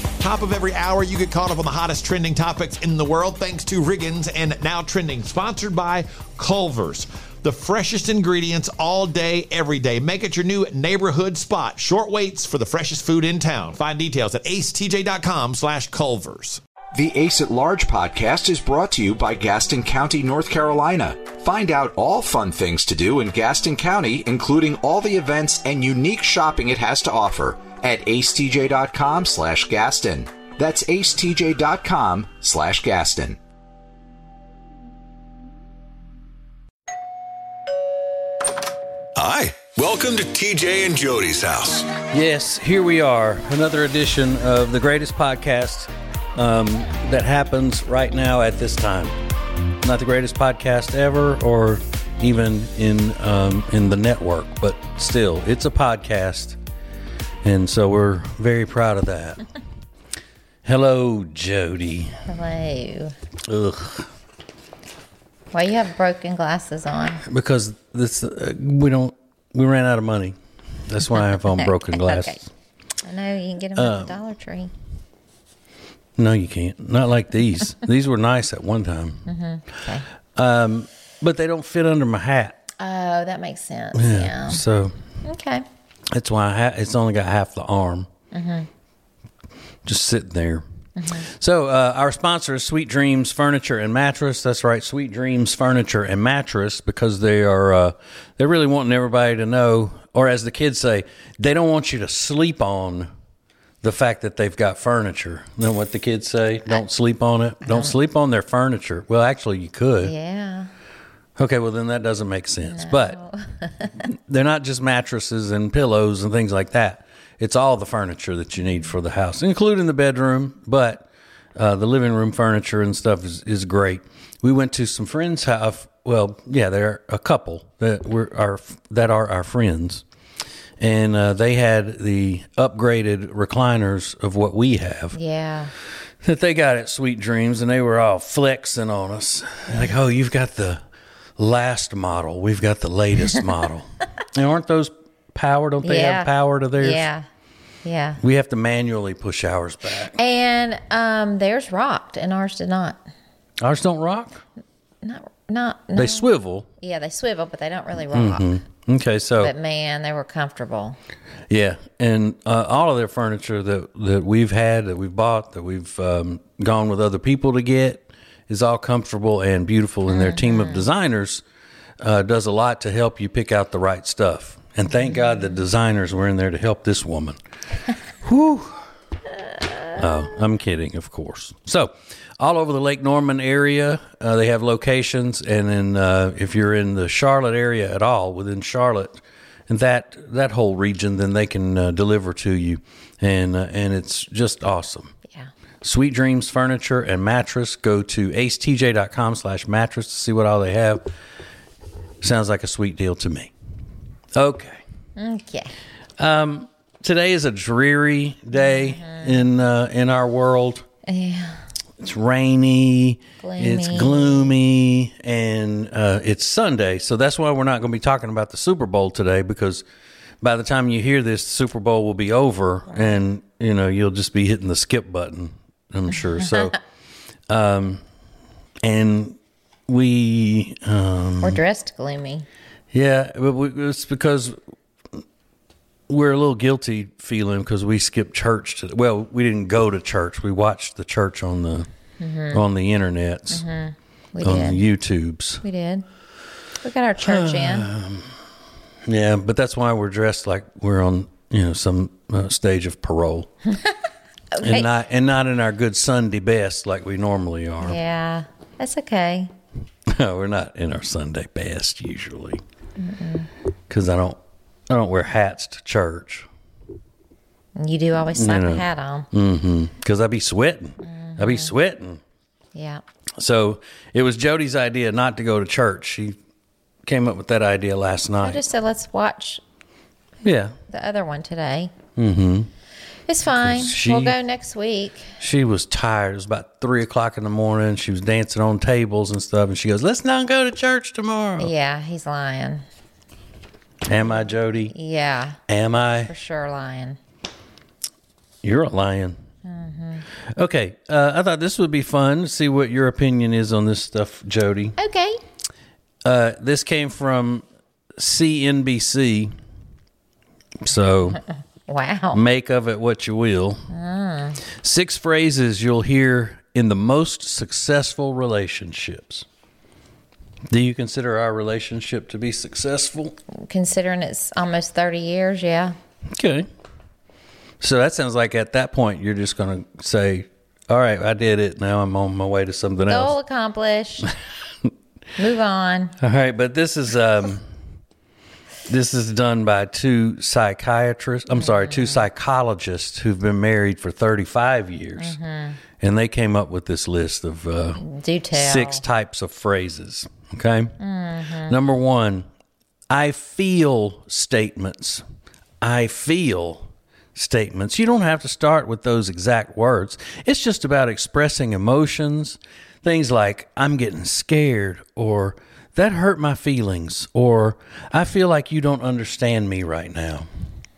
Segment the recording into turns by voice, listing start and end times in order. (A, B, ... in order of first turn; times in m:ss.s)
0:00.2-0:16.6 A
0:16.9-0:33.4 B
0:39.2-0:41.9 C
0:42.1-0:49.2 D
0:49.8-0:56.6 D
0:57.4-0:59.4 D
1:00.6-1:02.2 D
1:02.3-1:03.2 E
1:03.5-1:04.1 D
1:05.5-1:07.2 E
1:07.3-1:12.4 D
1:11.3-1:12.4 E
1:13.0-1:14.7 E
1:13.8-1:14.1 D
1:16.2-1:19.3 D
1:19.3-1:20.0 E
1:20.4-1:22.6 D
1:22.8-1:24.6 E
1:23.9-1:25.0 D
1:25.2-1:25.7 E
1:26.1-1:28.1 D
1:28.3-1:28.7 E
1:29.8-1:30.6 D
1:31.0-1:31.3 E
1:31.3-1:43.1 D
1:43.8-1:50.1 D
1:47.6-1:48.0 E
1:50.0-1:50.7 E
1:51.4-1:53.2 D
1:52.6-1:53.9 E
1:54.0-2:10.0 D
2:10.8-2:15.2 D
2:15.2-2:15.7 E
2:16.2-2:20.8 D
2:21.4-2:27.1 D
2:25.8-2:27.3 E
2:27.8-2:28.2 E
2:28.2-2:30.2 D
2:30.1-2:33.0 E
2:33.6-2:34.4 D
2:35.0-2:36.3 E
2:36.0-2:36.7 D
2:36.8-2:38.6 E
2:38.1-2:39.5 D
2:39.4-2:41.0 E
2:41.5-2:51.4 D
2:50.1-2:50.9 E
2:52.0-2:57.4 D
2:55.1-2:55.4 E
2:58.2-2:58.8 D
3:00.0-3:15.1 D
3:15.8-3:21.1 D
3:22.2-3:23.5 D
3:24.4-3:24.8 D
3:25.2-3:25.7 E
3:26.2-3:30.9 D
3:28.5-3:29.5 E
3:31.1-3:31.6 E
3:32.0-3:39.8 D
3:33.4-3:34.5 E
3:40.4-3:46.8 D
3:42.9-3:43.2 E
3:47.5-3:48.0 D
3:48.8-3:49.4 D
3:49.9-3:51.6 D
3:51.4-3:52.5 E
3:52.9-3:54.6 D
3:56.1-4:01.9 D
4:02.2-4:02.6 E
4:02.5-4:03.6 D
4:03.5-4:04.8 E
4:04.4-4:05.6 D
4:05.6-4:06.0 E
4:06.8-4:07.9 E
4:07.2-4:08.3 D
4:09.1-4:13.5 D
4:14.5-4:14.9 E
4:14.6-4:18.0 D
4:17.8-4:19.5 E
4:20.1-4:22.6 D
4:23.0-4:23.5 E
4:23.9-4:26.5 D
4:27.8-4:29.3 E
4:28.4-4:32.2 D
4:31.0-4:31.7 E
4:32.8-4:33.0 E
4:33.4-4:36.4 D
4:37.1-4:38.6 D
4:38.4-4:39.6 E
4:40.4-4:40.8 D
4:40.9-4:41.9 E
4:42.2-4:42.7 D
4:43.3-4:45.3 E
4:43.5-4:44.4 D
4:45.4-4:51.7 D
4:51.6-4:52.8 E
4:54.1-4:54.9 D
4:54.2-4:55.6 E
4:55.7-4:56.3 D
4:56.2-4:57.2 E
4:58.6-4:59.4 D
4:59.6-5:00.2 E
5:00.5-5:05.0 D
5:05.0-5:05.4 E
5:06.2-5:07.6 D
5:08.2-5:09.5 D
5:10.8-5:11.4 D
5:11.9-5:12.4 E
5:12.3-5:13.8 D
5:13.9-5:14.6 E
5:14.8-5:19.5 D
5:20.7-5:23.4 D
5:23.5-5:26.0 E
5:26.3-5:26.7 D
5:27.8-5:33.4 D
5:33.1-5:34.3 E
5:35.4-5:36.2 E
5:36.2-5:37.6 D
5:38.9-5:45.4 D
5:41.6-5:42.2 E
5:45.2-5:45.8 E
5:46.0-5:51.0 D
5:48.0-5:49.0 E
5:51.0-5:51.8 E
5:51.7-5:52.5 D
5:53.1-5:55.2 D
5:55.8-6:10.5 D